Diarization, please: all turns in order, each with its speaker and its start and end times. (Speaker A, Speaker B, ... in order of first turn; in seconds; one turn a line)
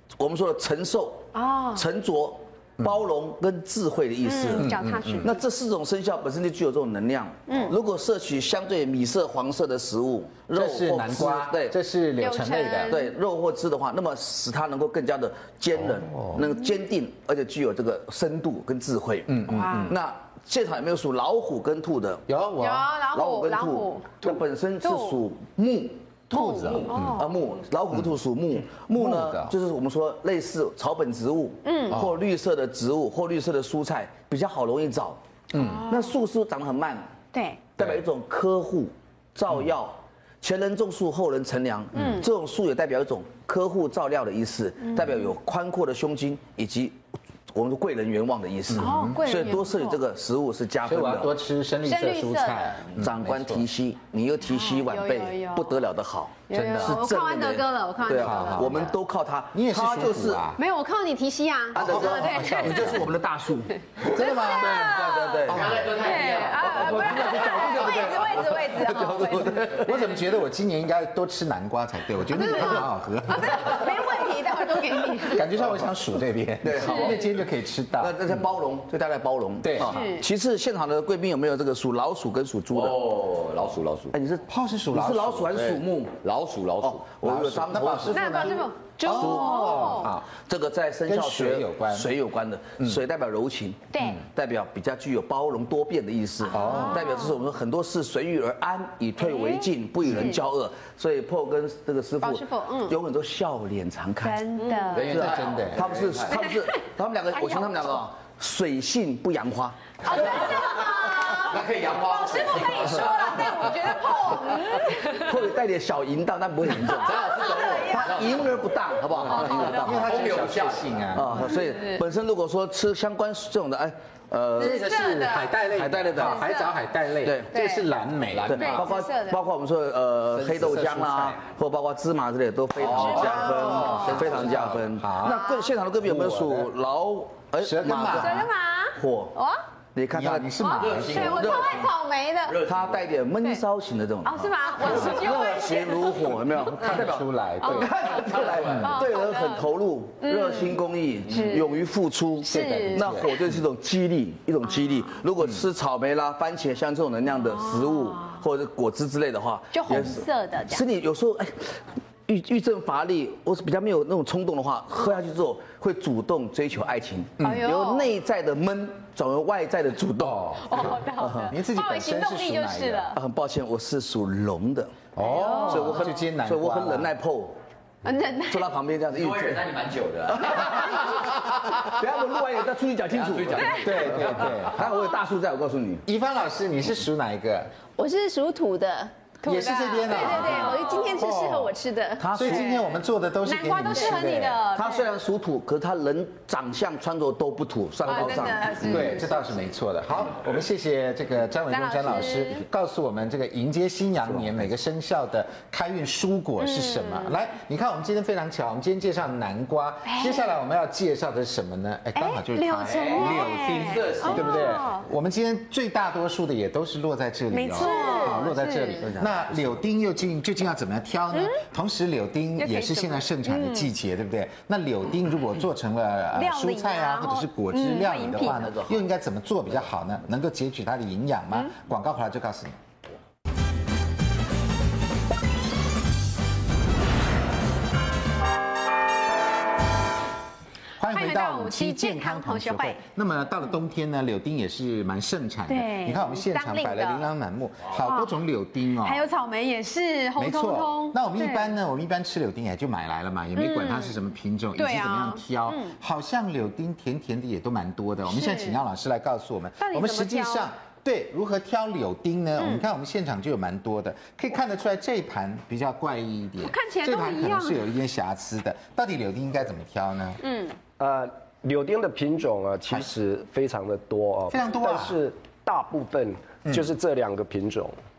Speaker A: 0.2-11.8
Speaker B: 1.3-1.8
Speaker B: 4.2-5.4
Speaker C: 4.5-5.3
Speaker B: 7.5-7.8
Speaker C: 10.5-12.9
Speaker B: 12.2-13.1
Speaker A: 12.9-22.2
Speaker C: 15.7-16.5
Speaker C: 19.3-20.0
Speaker B: 19.5-20.0
Speaker C: 22.3-22.9
Speaker B: 22.6-24.1
Speaker A: 23.1-35.2
Speaker B: 24.8-25.2
Speaker C: 26.3-27.2
Speaker B: 26.3-27.3
Speaker C: 28.9-29.5
Speaker B: 31.6-32.0
Speaker C: 31.9-32.2
Speaker C: 35.5-35.9
Speaker B: 35.5-36.2
Speaker A: 35.9-37.1
Speaker B: 37.3-37.6
Speaker A: 37.8-47.0
Speaker B: 41.9-42.2
Speaker C: 41.9-42.2
Speaker B: 44.8-45.2
Speaker A: 47.5-51.3
Speaker C: 48.7-49.2
Speaker B: 48.7-50.0
Speaker C: 50.8-53.6
Speaker B: 51.8-52.8
Speaker A: 52.9-60.5
Speaker B: 54.4-55.8
Speaker B: 56.5-58.9
Speaker C: 56.5-57.0
Speaker C: 58.1-59.0
Speaker C: 59.5-60.6
Speaker B: 60.6-63.0
Speaker A: 61.7-70.0
Speaker C: 61.7-63.1
Speaker B: 63.7-70.1
Speaker C: 64.0-66.1
Speaker D: 65.5-67.0
Speaker C: 67.0-68.1
Speaker C: 68.7-74.1
Speaker B: 72.3-75.5
Speaker C: 75.2-78.3
Speaker A: 76.6-77.4
Speaker B: 76.8-77.2
Speaker A: 78.0-83.0
Speaker C: 79.6-80.2
Speaker B: 79.8-80.3
Speaker D: 82.7-84.2
Speaker A: 84.1-86.2
Speaker C: 84.5-85.8
Speaker D: 86.2-87.1
Speaker A: 86.8-88.4
Speaker C: 87.2-90.3
Speaker B: 88.1-90.1
Speaker A: 89.1-110.8
Speaker C: 91.0-92.2
Speaker B: 93.9-94.2
Speaker B: 96.5-97.3
Speaker C: 96.5-97.2
Speaker B: 99.2-100.4
Speaker C: 100.0-100.3
Speaker B: 102.2-103.0
Speaker B: 104.2-105.2
Speaker D: 104.9-106.3
Speaker C: 105.1-105.9
Speaker B: 106.3-108.0
Speaker B: 110.0-115.5
Speaker D: 110.1-114.2
Speaker A: 112.5-113.4
Speaker A: 115.0-120.3
Speaker B: 116.8-118.4
Speaker D: 116.8-121.0
Speaker C: 119.8-121.5
Speaker A: 121.1-125.0
Speaker B: 121.4-122.0
Speaker B: 124.6-125.5
Speaker C: 124.6-128.9
Speaker A: 125.8-126.5
Speaker B: 126.2-126.8
Speaker A: 127.2-127.5
Speaker B: 127.5-127.9
Speaker D: 128.3-128.8
Speaker A: 128.5-139.4
Speaker B: 128.6-129.4
Speaker C: 130.3-131.4
Speaker D: 132.8-133.5
Speaker C: 132.9-135.4
Speaker B: 133.2-134.2
Speaker B: 135.2-135.7
Speaker C: 136.0-136.7
Speaker C: 137.6-138.5
Speaker B: 137.9-139.6
Speaker A: 139.9-141.9
Speaker C: 140.1-141.6
Speaker B: 140.6-142.6
Speaker D: 140.7-141.9
Speaker D: 142.5-143.1
Speaker A: 142.6-171.5
Speaker B: 144.2-146.8
Speaker C: 146.7-147.9
Speaker B: 147.6-149.7
Speaker D: 148.0-148.9
Speaker C: 148.6-149.0
Speaker B: 150.2-151.8
Speaker B: 152.4-153.3
Speaker C: 152.7-153.6
Speaker B: 154.6-155.2
Speaker C: 155.4-155.6
Speaker B: 157.4-158.4
Speaker B: 159.7-160.8
Speaker C: 167.4-167.7
Speaker B: 167.4-168.1
Speaker C: 170.2-173.1
Speaker B: 170.6-173.2
Speaker A: 173.1-177.6
Speaker C: 175.2-177.1
Speaker B: 175.2-176.1
Speaker B: 178.0-178.7
Speaker A: 178.5-186.0
Speaker D: 179.1-181.5
Speaker D: 183.0-184.8
Speaker B: 183.6-183.9
Speaker C: 183.8-184.9
Speaker C: 186.1-187.7
Speaker E: 188.0-189.1
Speaker B: 189.4-191.2
Speaker C: 189.4-191.8
Speaker E: 190.0-192.3
Speaker A: 192.2-192.8
Speaker C: 192.3-194.6
Speaker B: 192.4-192.9
Speaker B: 193.4-195.1
Speaker A: 194.7-199.2
Speaker B: 198.0-199.4
Speaker C: 198.8-232.8
Speaker B: 201.7-202.6
Speaker A: 204.3-204.7
Speaker B: 206.6-207.3
Speaker B: 210.1-210.5
Speaker B: 212.1-215.1
Speaker D: 212.8-214.8
Speaker B: 217.5-219.1
Speaker A: 218.9-219.7
Speaker B: 221.3-221.6
Speaker B: 222.6-223.9
Speaker B: 226.3-228.7
Speaker A: 228.3-229.1
Speaker C: 241.0-249.2
Speaker B: 241.0-243.0
Speaker B: 245.7-247.3
Speaker B: 247.9-248.4
Speaker B: 249.0-251.8
Speaker C: 250.3-270.4
Speaker B: 253.6-254.2
Speaker B: 254.7-255.9
Speaker B: 258.3-258.8
Speaker B: 259.8-260.7
Speaker B: 262.6-262.8
Speaker B: 266.6-267.8
Speaker B: 270.4-270.8
Speaker F: 271.0-278.0
Speaker C: 274.5-275.2